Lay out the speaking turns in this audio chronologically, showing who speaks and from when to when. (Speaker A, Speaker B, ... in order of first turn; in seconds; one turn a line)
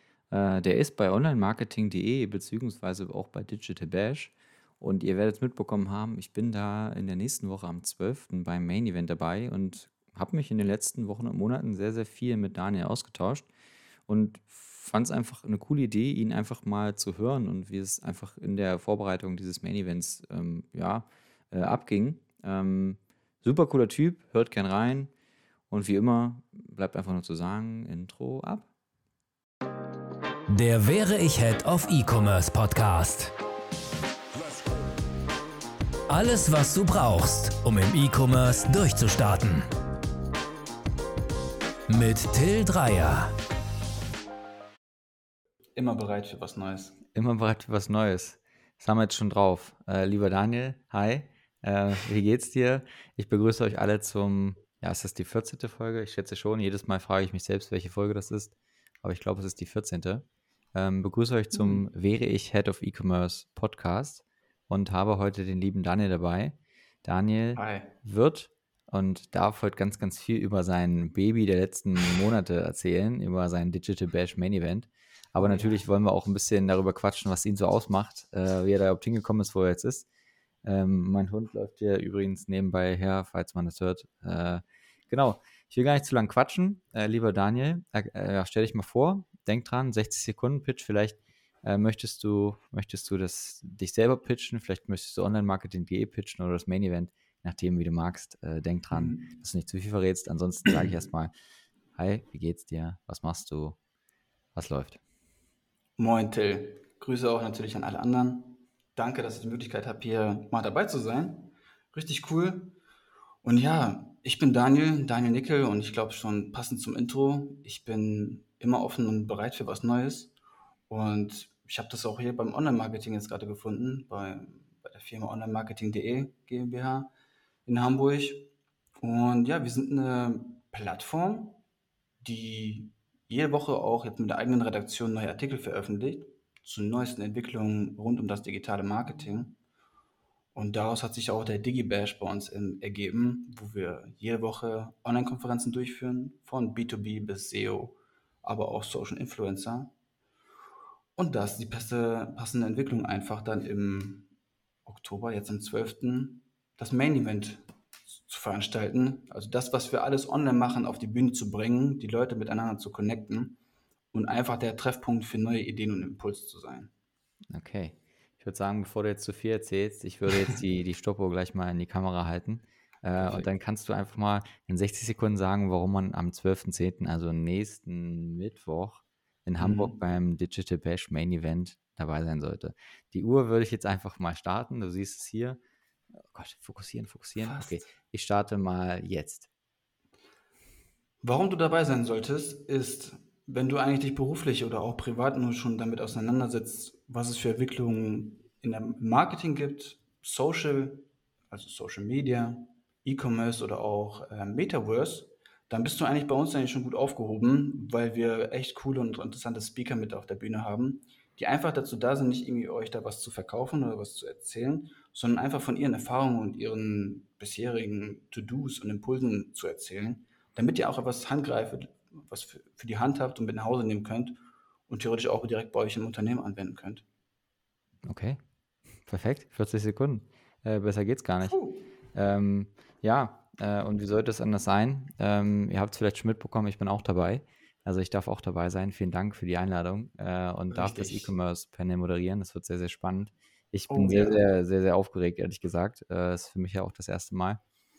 Speaker A: 0.3-13.5
Speaker A: 14.1-25.1
Speaker A: 25.7-28.7
Speaker B: 30.5-33.3
Speaker B: 36.1-39.7
Speaker B: 41.9-43.3
Speaker C: 45.8-47.0
Speaker A: 47.1-80.0
Speaker C: 61.5-61.9
Speaker C: 67.5-67.9
Speaker C: 75.3-75.8
Speaker A: 80.6-101.3
Speaker C: 98.9-99.3
Speaker A: 102.0-103.8
Speaker A: 104.5-105.0
Speaker C: 106.0-112.7
Speaker C: 113.4-120.3
Speaker C: 120.9-127.1
Speaker C: 127.7-131.6
Speaker C: 132.2-139.6
Speaker C: 140.5-149.9
Speaker C: 151.2-154.3
Speaker C: 154.8-163.6
Speaker C: 164.1-166.9
Speaker A: 167.5-185.6
Speaker C: 173.2-173.5
Speaker C: 179.6-179.9
Speaker A: 186.2-189.5
Speaker C: 187.4-187.8
Speaker C: 191.2-227.0
Speaker A: 228.1-228.4
Speaker A: 229.1-231.6
Speaker C: 231.4-231.8
Speaker A: 232.1-247.6
Speaker C: 240.7-241.3
Speaker C: 243.9-244.4